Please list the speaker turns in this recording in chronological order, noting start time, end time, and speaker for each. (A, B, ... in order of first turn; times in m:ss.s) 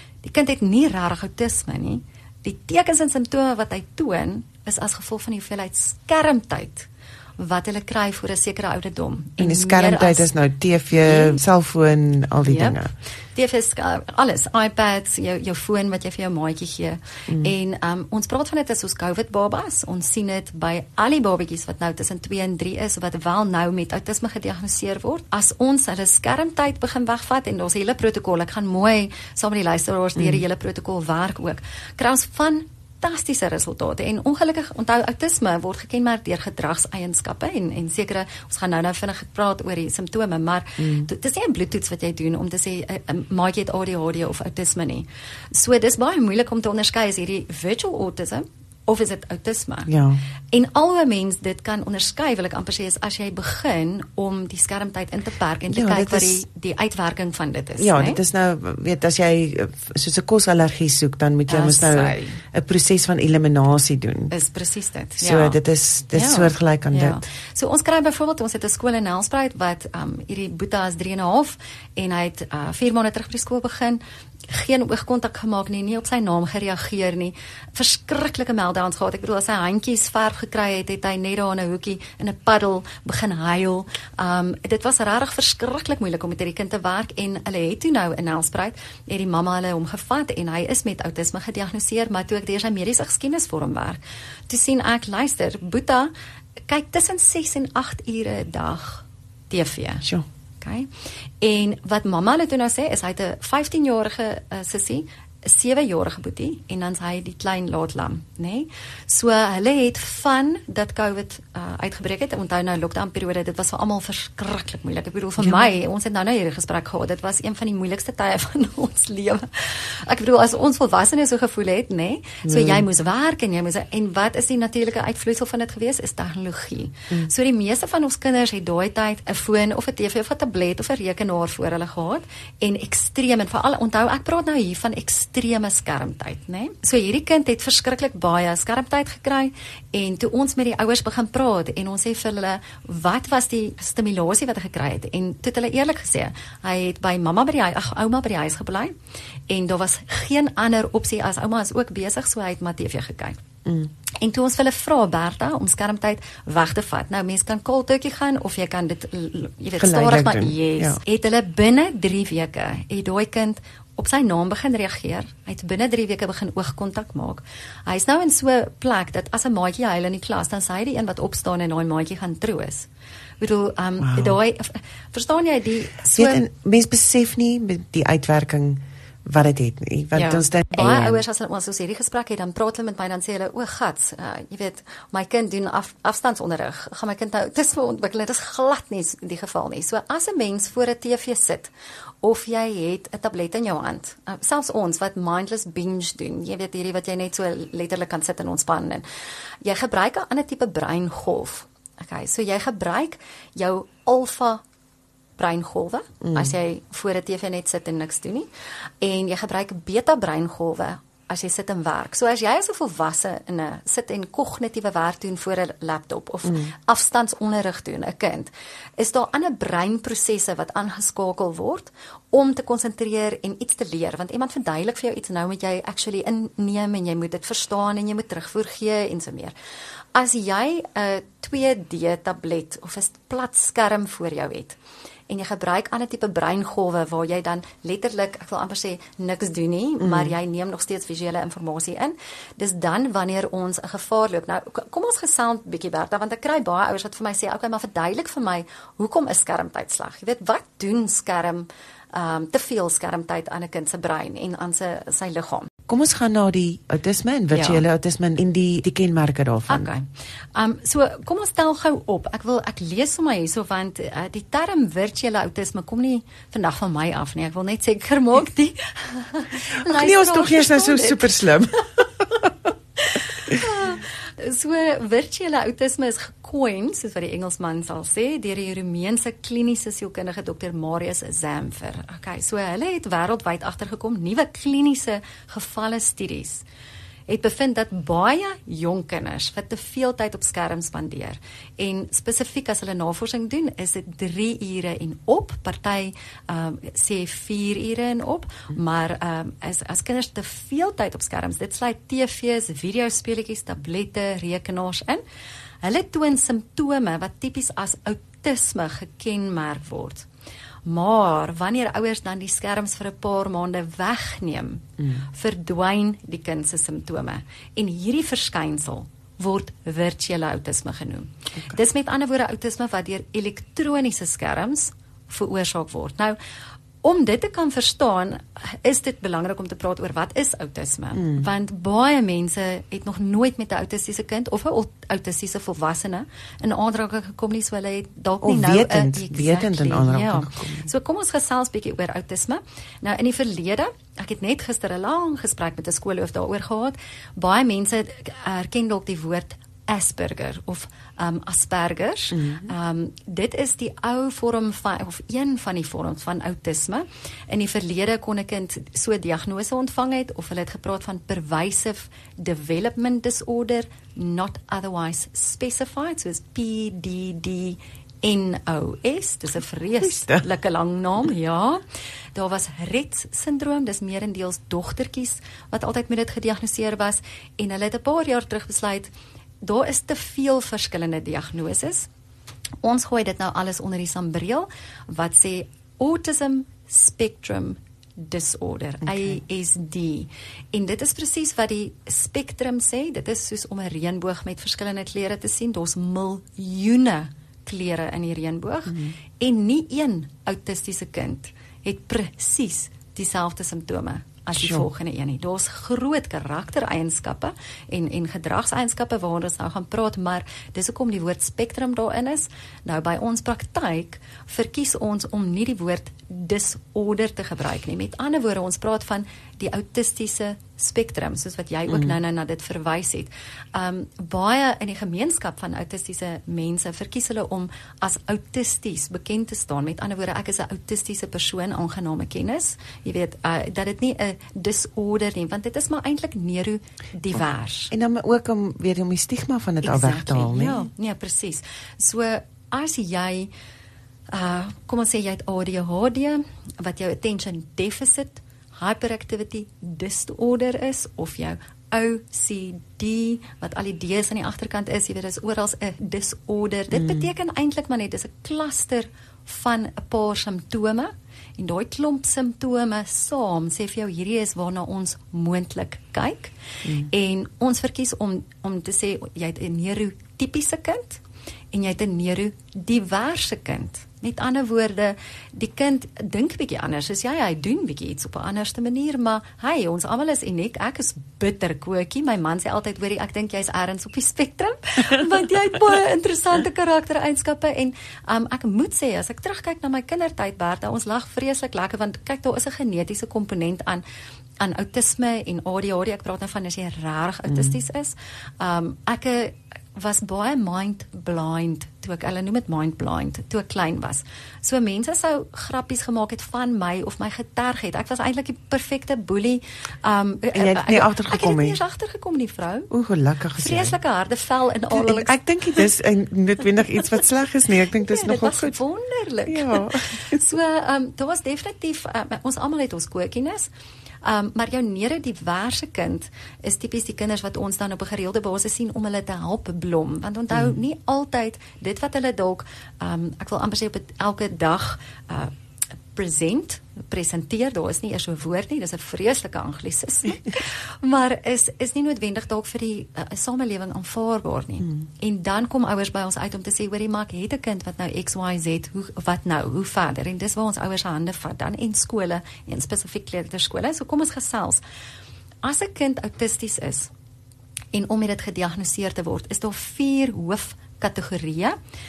0:00.2-0:10.3 A
0:09.4-0:12.9 B
0:11.0-0:11.4 A
0:12.4-0:49.9 A
0:30.2-0:30.4 B
0:40.8-0:41.1 B
0:49.9-0:50.2 B
0:50.5-0:58.2 A
0:55.7-0:56.4 B
0:57.8-1:04.3 B
1:01.5-1:02.4 A
1:04.3-1:05.6 A
1:05.2-1:07.2 B
1:06.1-1:36.1 A
1:36.7-1:40.0 A
1:40.6-2:29.0 A
1:55.4-1:55.7 B
2:02.4-2:02.9 B
2:29.5-2:33.4 A
2:33.6-2:33.9 B
2:34.2-2:52.9 A
2:39.8-2:41.0 B
2:53.4-2:56.4 A
2:54.0-2:54.4 B
2:56.2-3:01.2 B
3:00.2-3:19.0 A
3:19.6-3:24.6 A
3:25.4-3:28.5 A
3:26.2-3:26.5 B
3:29.0-3:49.5 A
3:36.5-3:36.7 B
3:50.1-4:15.7 A
4:00.0-4:00.3 B
4:15.9-4:19.9 B
4:17.5-4:17.8 A
4:19.7-4:31.3 A
4:29.8-4:32.6 B
4:33.0-4:46.6 A
4:33.2-4:33.6 B
4:47.3-5:05.2 A
5:05.8-5:10.3 A
5:10.8-5:26.4 A
5:15.0-5:15.2 B
5:27.0-6:11.8 A
5:31.2-5:31.5 B
5:38.4-5:40.9 B
5:52.3-5:52.7 B
6:10.0-6:10.5 B
6:12.3-6:19.1 A
6:19.6-6:22.1 A
6:22.8-7:17.9 A
6:29.0-6:29.4 B
6:38.9-6:39.2 B
6:44.6-6:44.9 B
7:17.9-7:20.9 B
7:19.8-7:23.5 A
7:24.3-7:46.5 A
7:37.0-7:37.2 B
7:46.8-7:47.1 B
7:47.1-8:14.0 A
8:14.6-8:32.9 A
8:17.5-8:17.8 B
8:30.5-8:31.8 B
8:32.9-8:34.0 B
8:33.6-8:35.9 A
8:34.9-8:38.8 B
8:38.0-8:43.7 A
8:39.5-8:40.4 B
8:44.2-8:55.5 A
8:56.1-9:14.8 A
9:15.6-9:17.1 A
9:17.9-9:21.8 A